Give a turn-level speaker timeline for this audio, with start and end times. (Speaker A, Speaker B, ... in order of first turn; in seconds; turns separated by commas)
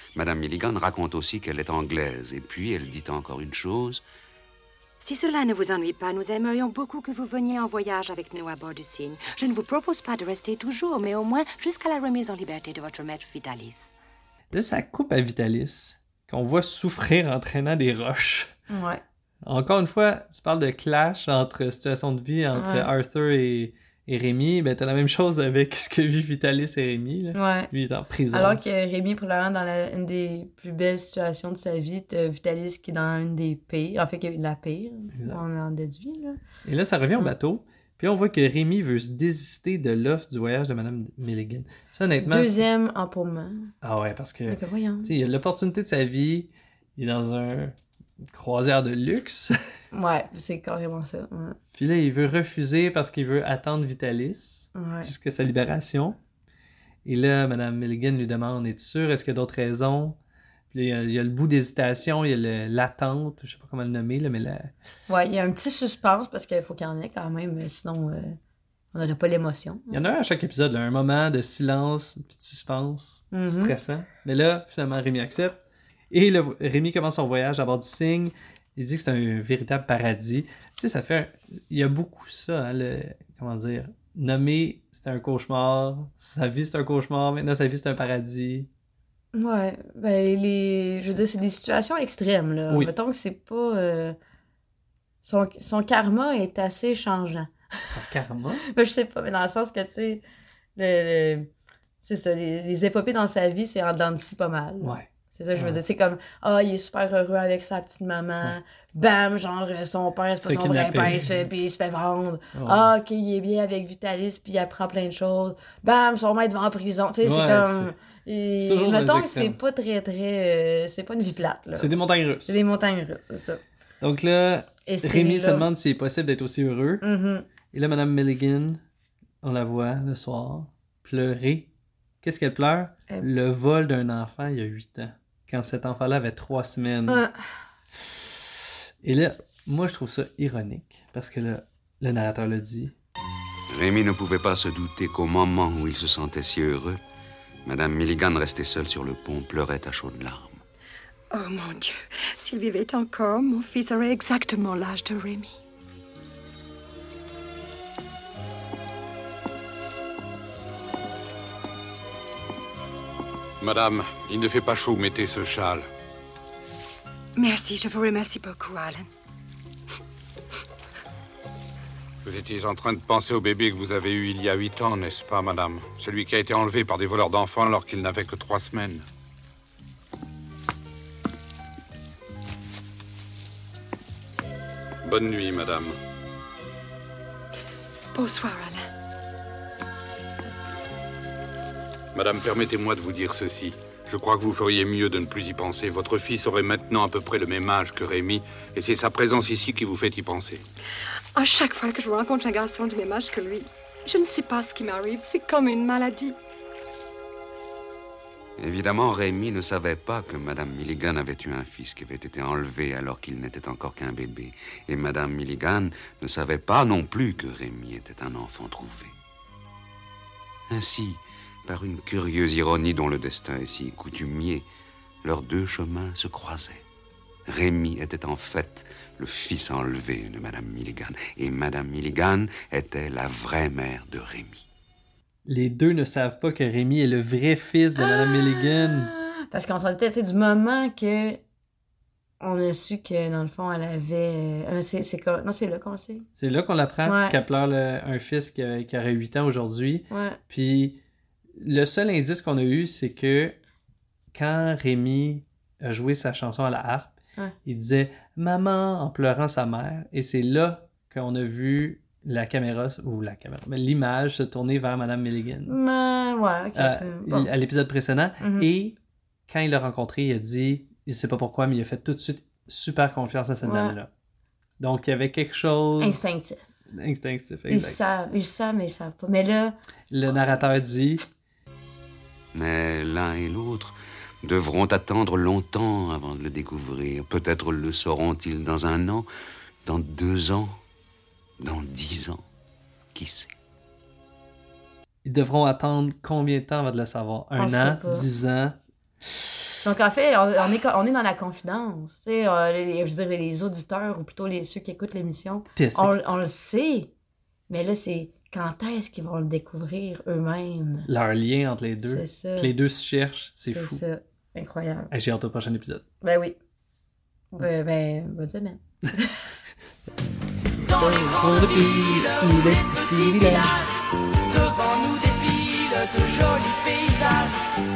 Speaker A: 0.1-4.0, Speaker B: 5.0-13.9, Speaker C: 14.5-18.5, Speaker D: 18.7-19.0, Speaker C: 19.4-28.7, Speaker D: 22.5-22.9, Speaker D: 27.4-27.7, Speaker D: 28.3-36.4, Speaker C: 35.1-35.4, Speaker C: 36.6-42.6, Speaker D: 42.2-43.7, Speaker C: 43.8-49.6, Speaker D: 44.5-45.1, Speaker D: 49.9-51.6, Speaker C: 51.7-56.2, Speaker D: 54.8-55.1, Speaker C: 57.0-60.2, Speaker C: 60.7-64.7, Speaker D: 65.1-68.4, Speaker D: 68.9-70.0, Speaker C: 69.9-75.6, Speaker D: 73.3-73.8, Speaker C: 76.1-88.7, Speaker D: 89.3-94.2, Speaker D: 95.2-97.5, Speaker C: 97.9-98.6, Speaker D: 98.7-100.2, Speaker D: 100.8-101.5, Speaker D: 102.0-123.6, Speaker C: 104.8-105.8, Speaker C: 110.4-111.5, Speaker C: 112.5-112.9, Speaker C: 117.2-117.9, Speaker C: 118.6-119.6, Speaker C: 121.8-122.6, Speaker C: 124.0-127.0, Speaker D: 124.9-125.7, Speaker D: 127.0-127.5, Speaker C: 127.7-128.8, Speaker C: 129.4-131.7, Speaker C: 132.2-137.2, Speaker D: 137.1-137.4, Speaker C: 139.0-142.9, Speaker A: 143.7-147.0, Speaker A: 147.7-150.6, Speaker B: 151.3-155.6, Speaker E: 163.6-165.9, Speaker B: 167.4-169.1, Speaker E: 172.2-179.1, Speaker E: 185.1-186.0, Speaker B: 188.1-188.9, Speaker E: 192.1-200.6, Speaker B: 201.3-206.4, Speaker A: 208.6-219.1, Speaker A: 220.7-224.7, Speaker A: 225.2-226.8, Speaker A: 227.5-234.7, Speaker C: 235.5-239.1, Speaker D: 238.0-241.4, Speaker D: 242.4-246.3, Speaker C: 246.4-251.0, Speaker D: 247.1-247.4, Speaker D: 250.1-250.4, Speaker C: 251.6-253.6, Speaker C: 254.3-257.1, Speaker C: 257.6-265.8, Speaker D: 265.7-267.5, Speaker C: 266.8-269.0, Speaker D: 268.4-268.7, Speaker C: 269.5-274.1, Speaker D: 273.6-274.0, Speaker C: 274.8-276.2, Speaker D: 276.0-276.6, Speaker C: 276.9-278.0, Speaker D: 277.7-279.8, Speaker C: 280.1-281.2, Speaker A: 282.5-289.3, Speaker A: 289.9-290.8, Speaker A: 291.6-292.4, Speaker A: 293.1-293.5, Speaker C: 295.2-298.8, Speaker D: 297.6-298.3, Speaker D: 299.8-307.1, Speaker C: 305.8-306.2, Speaker D: 307.7-311.1, Speaker C: 311.1-314.0, Speaker D: 312.0-312.8, Speaker D: 313.6-315.1, Speaker C: 315.1-316.1, Speaker D: 316.2-316.6, Speaker D: 317.5-319.4, Speaker F: 320.8-327.6, Speaker D: 323.1-323.5